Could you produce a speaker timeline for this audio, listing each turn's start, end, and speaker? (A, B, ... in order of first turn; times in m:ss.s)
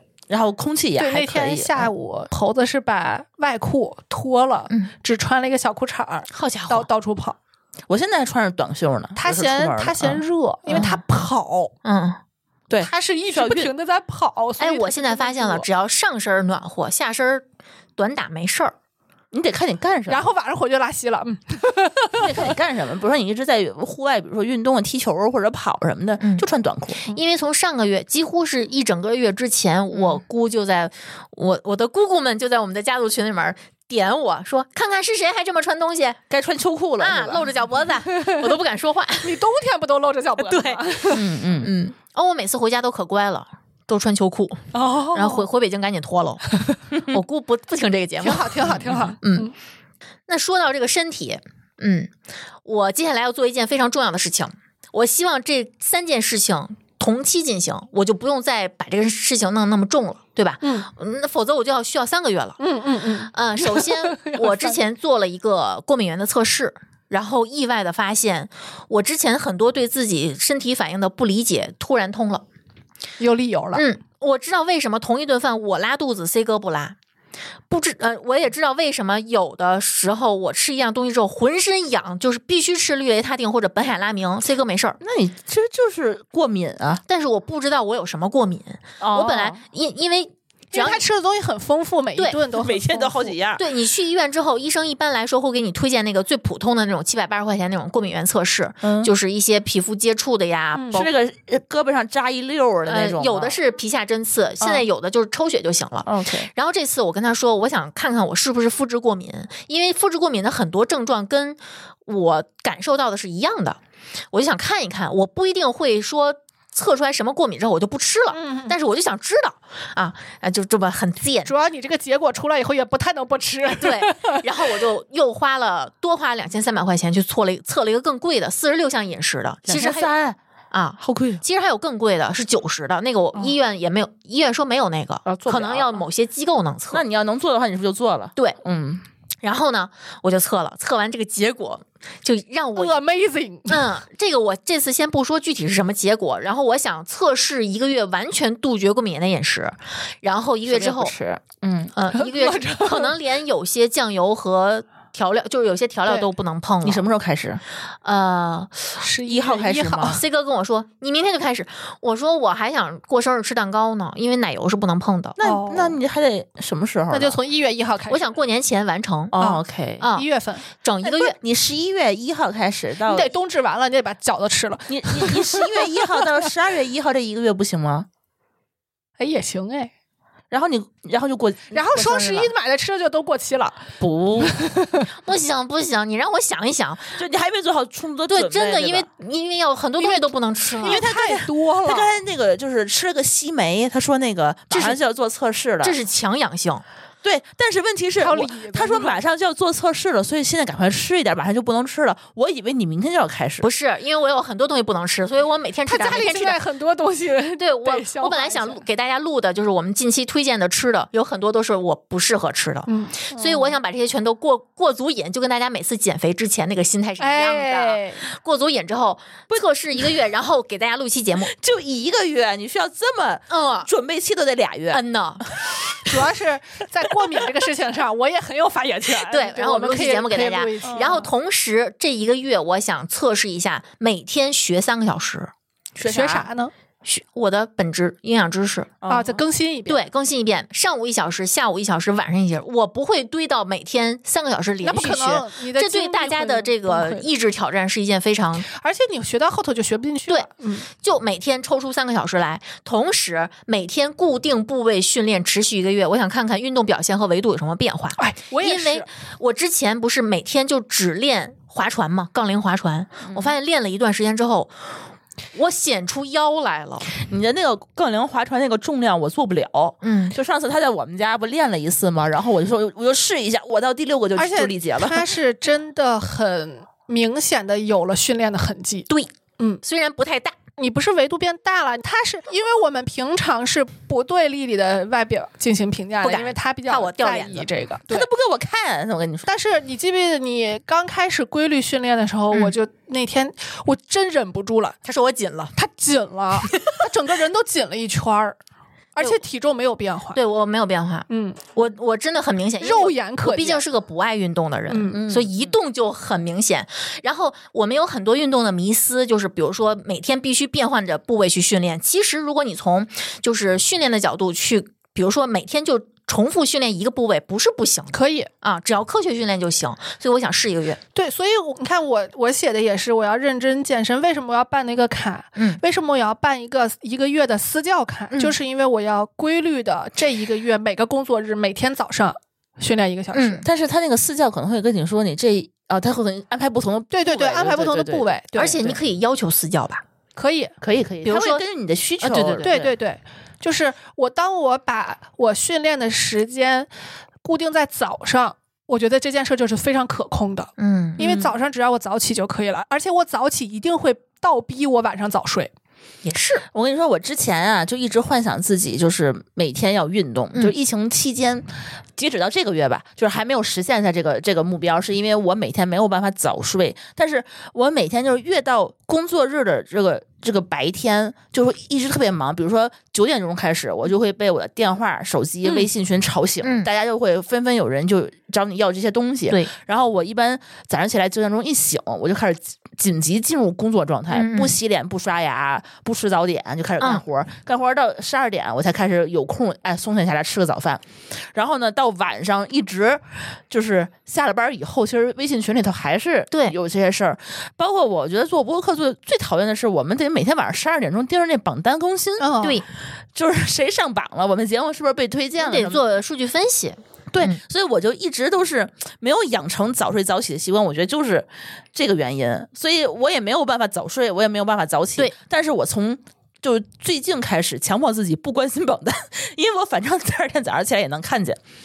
0:00.3-0:01.9 A
0:01.0-0:07.4 B
0:06.3-0:06.9 C
0:07.9-0:10.2 A
0:09.2-0:11.7 B
0:10.7-0:11.0 C
0:11.8-0:12.2 C
0:12.7-0:13.7 A
0:12.8-0:15.7 B
0:14.6-0:17.4 C
0:18.0-0:18.7 C
0:19.3-0:20.3 A
0:20.1-0:22.5 B
0:22.1-0:27.0 A
0:26.2-0:26.4 C
0:27.0-0:36.2 C
0:36.3-0:37.5 A
0:37.0-0:39.4 C
0:38.1-0:38.6 B
0:39.2-0:41.2 B
0:40.4-0:46.4 C
0:41.1-0:41.7 A
0:44.7-0:45.5 B
0:47.1-0:49.5 C
0:48.2-0:49.5 B
0:48.7-0:49.1 A
0:50.3-0:52.1 C
0:52.6-1:02.6 C
1:00.6-1:00.9 B
1:02.6-1:04.8 B
1:03.3-1:12.4 C
1:13.2-1:13.8 B
1:13.7-1:17.0 C
1:17.7-1:25.0 C
1:25.0-1:27.0 A
1:27.1-1:31.0 C
1:29.0-1:29.6 A
1:30.7-1:33.3 B
1:32.5-1:33.6 A
1:33.6-1:41.0 C
1:38.8-1:39.1 A
1:40.7-1:41.1 B
1:40.9-1:43.6 A
1:42.9-1:53.8 C
1:46.0-1:46.5 A
1:54.3-2:01.5 C
1:58.3-1:58.8 B
2:01.4-2:04.7 B
2:03.6-2:10.1 C
2:09.7-2:10.4 A
2:10.7-2:17.0 C
2:11.0-2:11.4 A
2:15.2-2:16.0 A
2:16.9-2:19.0 A
2:19.4-2:23.0 C
2:22.8-2:23.8 B
2:23.7-2:31.1 C
2:30.6-2:31.9 A
2:31.9-2:37.0 C
2:32.1-2:33.2 B
2:36.8-2:37.6 A
2:38.0-2:39.0 C
2:39.0-2:40.2 B
2:39.2-2:40.2 A
2:40.0-2:45.4 C
2:45.4-2:47.4 A
2:45.4-2:46.0 B
2:47.1-2:48.2 B
2:48.1-2:49.3 C
2:49.3-2:50.0 A
2:50.0-2:50.2 C
2:50.1-2:50.7 B
2:50.8-2:51.4 C
2:51.0-2:53.3 A
2:53.0-2:56.5 B
2:54.9-2:58.1 A
2:59.2-2:59.9 B
3:00.5-3:02.5 A
3:01.7-3:05.1 B
3:04.0-3:04.6 A
3:05.2-3:07.2 C
3:07.2-3:09.1 A
3:08.3-3:11.0 C
3:10.0-3:12.2 B
3:10.8-3:16.0 A
3:15.8-3:16.8 C
3:17.2-3:23.6 A
3:18.2-3:19.2 B
3:23.6-3:26.6 C
3:25.8-3:28.8 B
3:27.6-3:41.5 C
3:32.9-3:33.8 B
3:37.2-3:38.2 B
3:41.5-3:46.2 A
3:43.5-3:43.9 C
3:44.9-3:45.4 C
3:46.0-3:51.3 B
3:49.3-3:55.5 C
3:50.8-3:51.2 A
3:56.0-3:56.5 A
3:56.0-3:56.7 B
3:57.0-3:58.9 C
3:59.0-3:59.4 A
3:59.1-4:00.0 B
3:59.9-4:08.7 C
4:04.8-4:07.3 B
4:08.7-4:10.9 B
4:10.3-4:24.7 C
4:18.2-4:19.1 B
4:25.5-4:27.1 C
4:27.2-4:35.3 A
4:30.0-4:30.3 C
4:34.4-4:39.1 B
4:39.1-4:40.6 C
4:40.8-4:48.3 B
4:46.2-4:47.7 C
4:48.1-4:49.5 A
4:49.4-4:55.0 B
4:55.0-4:55.7 C
4:55.8-4:58.6 B
4:59.1-5:00.4 B
5:00.3-5:21.0 C
5:01.3-5:01.6 B
5:02.8-5:03.8 B
5:04.9-5:05.2 B
5:05.1-5:05.7 A
5:18.1-5:18.5 B
5:21.1-5:33.6 B
5:33.3-5:33.6 C
5:33.6-5:39.0 A
5:37.1-5:38.9 B
5:38.6-5:40.0 C
5:40.4-5:40.7 B
5:40.8-5:42.9 A
5:41.2-5:41.6 C
5:42.2-5:42.7 C
5:42.6-5:46.9 B
5:47.4-5:55.7 B
5:50.8-5:51.2 C
5:51.2-5:51.5 A
5:56.2-5:56.6 C
5:56.7-6:42.5 A
6:16.6-6:16.9 C
6:24.3-6:24.7 C
6:42.4-6:42.8 B
6:43.3-6:46.0 A
6:45.6-6:47.6 C
6:47.3-7:01.6 A